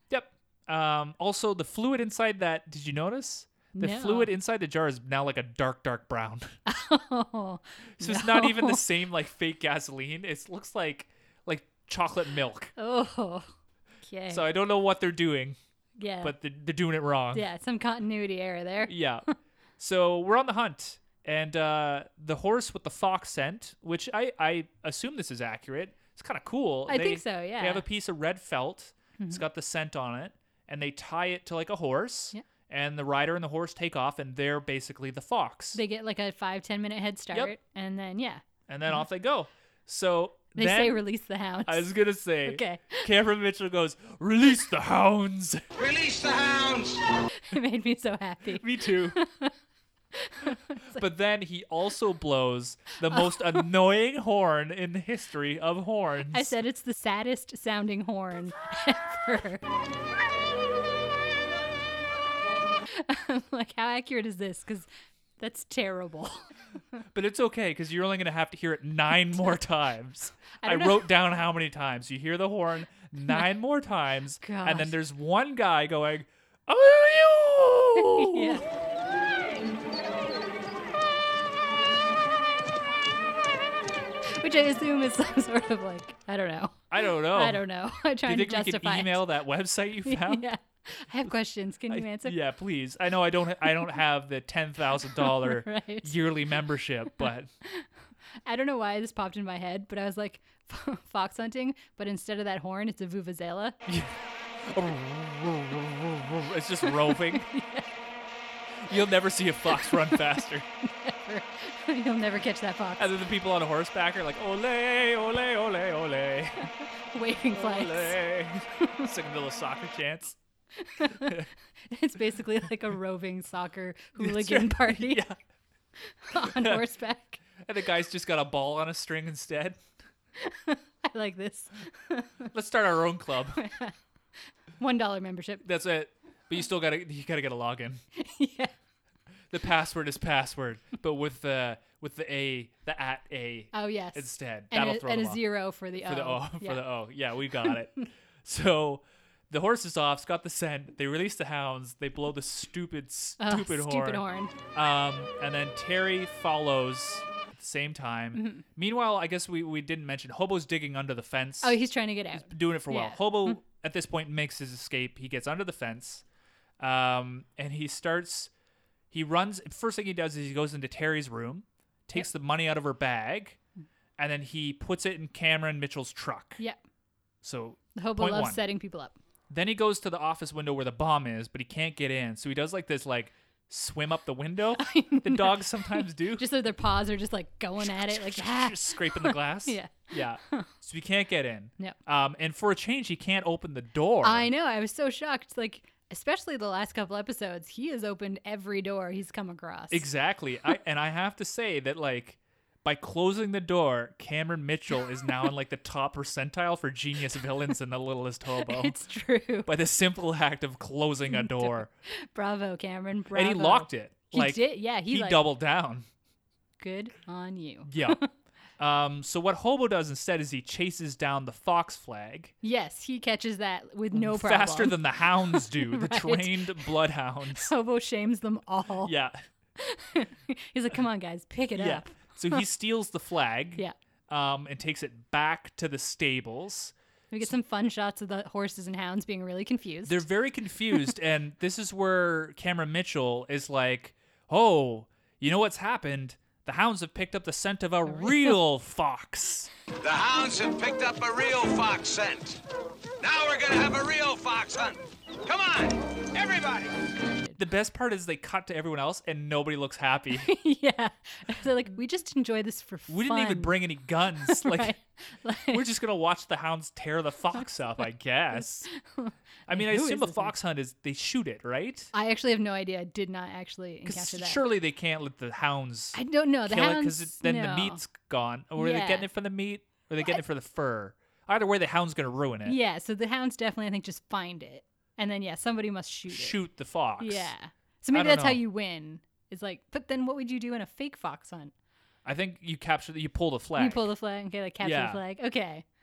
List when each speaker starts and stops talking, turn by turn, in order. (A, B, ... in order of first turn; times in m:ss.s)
0:00.1-0:06.6 A
0:03.7-0:04.3 B
0:06.6-0:08.8 B
0:08.0-0:12.7 A
0:12.8-0:14.4 B
0:14.3-0:15.6 A
0:16.0-0:16.3 B
0:16.2-0:17.4 A
0:17.3-0:19.3 B
0:18.9-0:19.3 A
0:19.8-0:35.8 A
0:26.9-0:27.8 B
0:35.7-0:38.4 B
0:38.7-0:41.0 A
0:40.6-0:43.1 B
0:41.6-0:45.6 A
0:45.8-0:47.1 C
0:47.3-0:49.5 B
0:48.5-0:49.2 A
0:50.1-0:51.0 B
0:50.9-0:56.5 A
0:53.1-0:53.6 B
0:56.3-0:59.6 B
1:02.9-1:06.5 B
1:07.1-1:18.6 A
1:10.6-1:11.1 B
1:14.4-1:15.0 B
1:18.0-1:18.6 B
1:24.3-1:29.3 B
1:26.9-1:27.6 A
1:28.2-1:30.4 A
1:30.0-1:32.4 B
1:31.9-1:37.5 A
1:35.0-1:36.1 B
1:38.4-1:43.8 B
1:43.9-1:47.5 A
1:46.8-1:47.9 B
1:48.8-1:50.7 A
1:49.9-1:50.2 B
1:50.8-1:53.1 B
1:53.0-1:56.7 A
1:57.1-1:58.2 B
1:57.5-2:00.4 A
2:00.8-2:05.2 B
2:01.2-2:01.5 A
2:04.2-2:05.4 A
2:06.0-2:07.4 B
2:06.3-2:06.8 A
2:07.6-2:09.8 A
2:10.4-2:12.5 B
2:12.5-2:13.6 A
2:13.6-2:13.9 B
2:14.8-2:15.6 B
2:15.6-2:18.0 A
2:18.2-2:18.7 B
2:19.5-2:25.4 A
2:23.7-2:26.8 B
2:26.0-2:41.8 A
2:33.4-2:34.5 B
2:38.4-2:38.6 B
2:41.6-2:43.6 B
2:42.4-2:46.2 A
2:46.8-2:48.5 A
2:49.1-2:53.6 A
2:54.2-2:56.6 A
2:57.4-2:58.6 A
2:58.0-2:59.1 B
2:59.5-3:06.5 A
3:04.8-3:10.7 B
3:07.8-3:14.5 A
3:14.2-3:20.1 B
3:19.9-3:29.0 A
3:28.6-3:29.7 B
3:29.6-3:31.9 A
3:31.3-3:35.4 B
3:33.3-3:36.1 A
3:36.8-3:38.3 B
3:37.9-3:38.2 A
3:38.8-3:42.5 A
3:42.6-3:46.9 B
3:44.1-3:47.7 A
3:47.5-3:49.1 B
3:49.0-3:49.4 A
3:49.8-3:52.6 B
3:51.8-3:57.5 A
3:57.3-4:00.2 B
4:00.0-4:09.7 A
4:10.0-4:12.6 C
4:13.2-4:17.0 C
4:17.6-4:20.5 A
4:20.3-4:23.8 B
4:23.1-4:24.9 A
4:24.4-4:25.8 B
4:25.7-4:28.9 A
4:28.6-4:30.5 B
4:29.7-4:32.1 A
4:32.1-4:34.6 B
4:34.0-4:42.8 A
4:36.1-4:38.0 B
4:38.8-4:39.3 B
4:42.6-4:46.6 B
4:46.3-4:47.5 A
4:47.2-4:51.7 B
4:48.1-4:48.6 A
4:52.2-4:54.1 A
4:53.8-4:55.8 B
4:54.8-4:55.2 A